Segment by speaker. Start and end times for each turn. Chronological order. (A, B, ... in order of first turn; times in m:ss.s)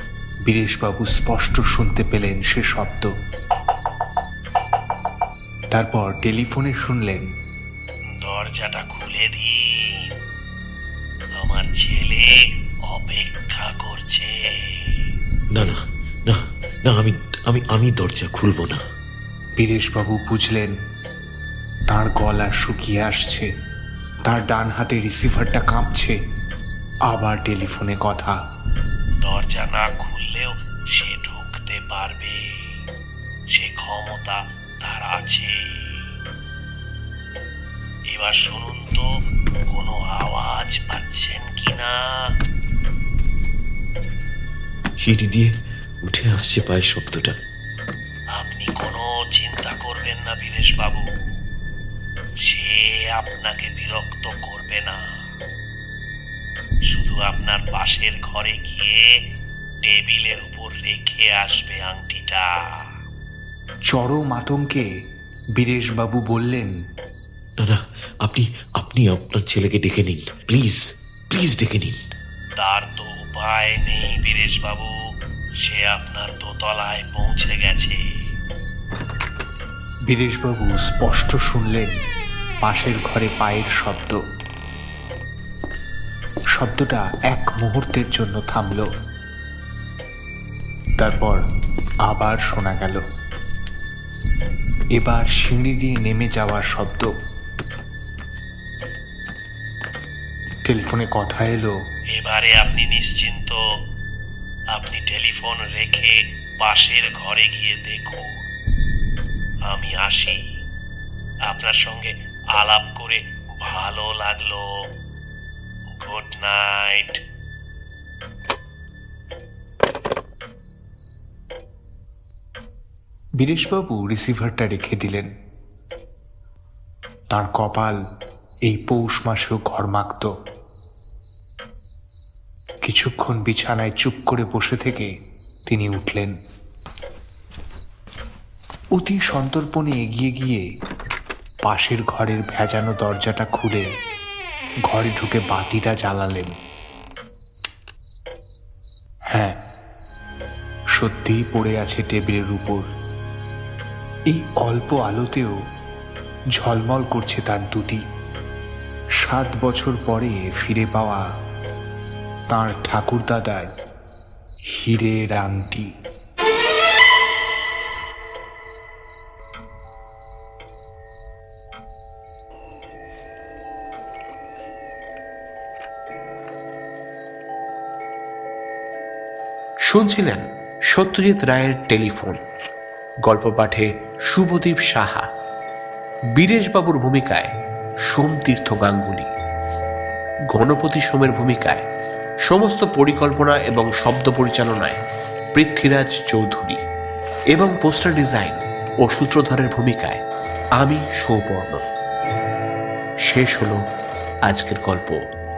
0:00.5-0:03.1 A
0:05.7-0:07.2 A
0:08.2-0:10.1 B
0:11.4-0:12.4 B
0:12.9-0:15.1 B
0:15.5-0:18.8 C
0:19.6-0:20.7 A
0:21.9-0:23.5 A
0:24.2-0:26.2 A
0:27.1-0:28.3 A
0:29.2-0:32.8 B
0:33.5-0:36.1 B
0:38.1-0:39.1 B
0:39.7-0:42.2 B
0:45.0-0:45.5 C
0:46.0-0:47.4 C
0:48.4-0:51.1 B
0:52.4-0:55.0 B
0:56.9-0:59.1 B
0:59.8-1:02.8 B
1:03.9-1:04.8 A
1:05.6-1:06.7 A
1:07.6-1:12.0 C
1:12.6-1:14.9 B
1:15.6-1:18.0 B
1:20.1-1:21.9 A
1:22.6-1:24.2 A
1:26.6-1:28.9 A
1:31.0-1:31.4 A
1:32.1-1:33.0 A
1:35.0-1:37.1 A
1:40.7-1:41.7 A
1:42.2-1:43.6 B
1:44.7-1:48.3 B
1:49.7-1:50.4 B
1:51.5-1:54.7 B
1:56.0-1:57.2 B
2:03.4-2:05.3 A
2:07.3-2:08.0 A
2:08.7-2:10.3 A
2:12.8-2:15.1 A
2:15.7-2:16.3 A
2:19.0-2:20.6 A
2:21.6-2:23.9 A
2:24.9-2:26.5 A
2:31.0-2:32.8 A
2:34.3-2:35.5 A
2:36.6-2:38.0 A
2:39.2-2:41.2 A
2:42.5-2:43.7 A
2:44.8-2:45.9 A
2:59.8-3:02.4 D
3:03.2-3:05.3 D
3:06.4-3:07.5 D
3:08.1-3:09.3 D
3:10.5-3:11.8 D
3:12.5-3:15.0 D
3:15.5-3:16.8 D
3:17.5-3:20.2 D
3:20.8-3:21.8 D
3:23.3-3:23.8 D
3:24.5-3:25.2 D